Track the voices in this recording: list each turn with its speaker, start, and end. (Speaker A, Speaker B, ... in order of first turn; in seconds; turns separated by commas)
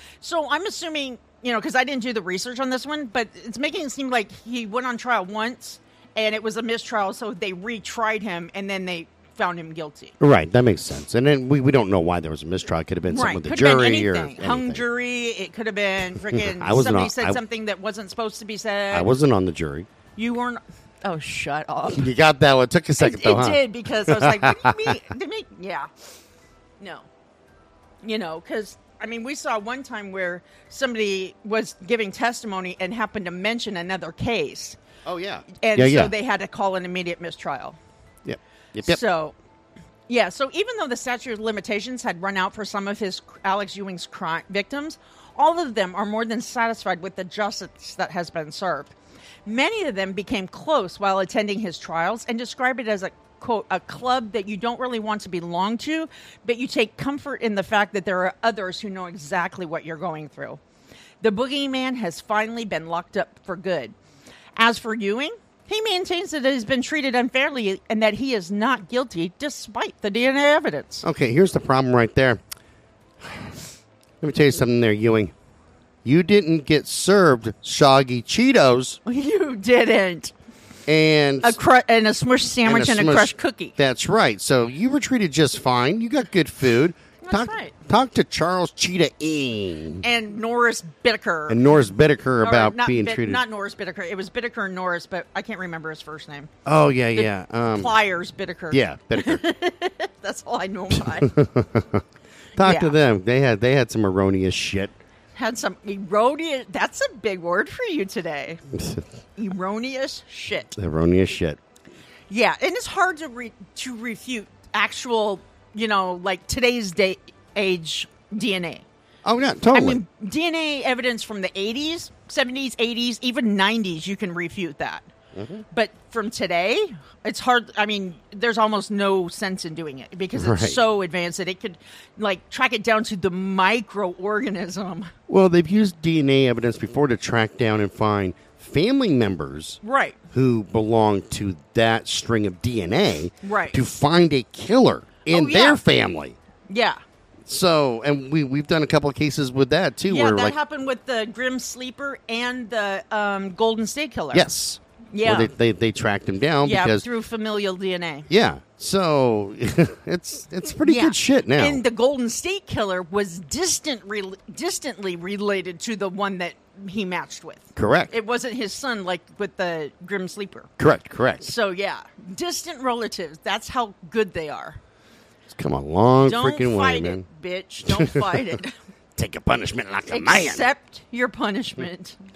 Speaker A: 0.2-10.2, Speaker B: 10.2-14.8, Speaker A: 13.1-19.1, Speaker B: 16.2-17.4, Speaker B: 18.9-19.9, Speaker A: 20.2-22.1, Speaker B: 21.9-24.9, Speaker A: 23.0-25.9, Speaker A: 26.8-27.1, Speaker A: 28.0-34.8, Speaker B: 35.1-36.1, Speaker A: 35.6-37.8, Speaker B: 38.2-39.0, Speaker A: 38.8-39.4, Speaker A: 40.1-49.0, Speaker A: 49.5-60.6, Speaker A: 61.2-63.9, Speaker A: 64.6-71.0, Speaker B: 71.0-72.4, Speaker B: 73.2-73.6, Speaker B: 74.2-75.3, Speaker B: 76.0-79.0, Speaker A: 79.1-80.3, Speaker B: 80.9-81.6, Speaker A: 81.4-83.8, Speaker B: 82.7-90.0, Speaker A: 87.2-87.8, Speaker A: 90.0-91.6, Speaker B: 91.5-93.4, Speaker A: 92.4-96.5, Speaker B: 96.7-97.9, Speaker A: 97.2-101.3, Speaker B: 98.7-99.4, Speaker B: 101.0-102.0, Speaker B: 102.6-105.0, Speaker A: 102.6-103.0, Speaker A: 105.3-108.6, Speaker A: 109.4-110.7, Speaker B: 110.8-111.6, Speaker A: 112.3-118.8, Speaker B: 119.2-120.0, Speaker A: 119.7-125.1, Speaker B: 125.3-125.6, Speaker A: 125.7-135.1, Speaker B: 130.3-130.8, Speaker B: 135.3-139.8, Speaker A: 139.8-140.2, Speaker B: 140.3-146.4, Speaker A: 143.4-143.8, Speaker A: 145.3-145.8, Speaker A: 146.7-147.0, Speaker B: 147.5-150.6, Speaker A: 150.1-154.5, Speaker B: 154.3-157.1, Speaker A: 155.1-155.5, Speaker A: 156.6-158.3, Speaker B: 158.3-161.8, Speaker A: 160.8-170.7, Speaker B: 167.8-168.1, Speaker B: 170.8-171.5, Speaker A: 171.4-174.8, Speaker B: 175.5-177.3, Speaker A: 176.2-178.8, Speaker B: 178.0-178.4, Speaker B: 179.2-180.7, Speaker A: 180.1-182.2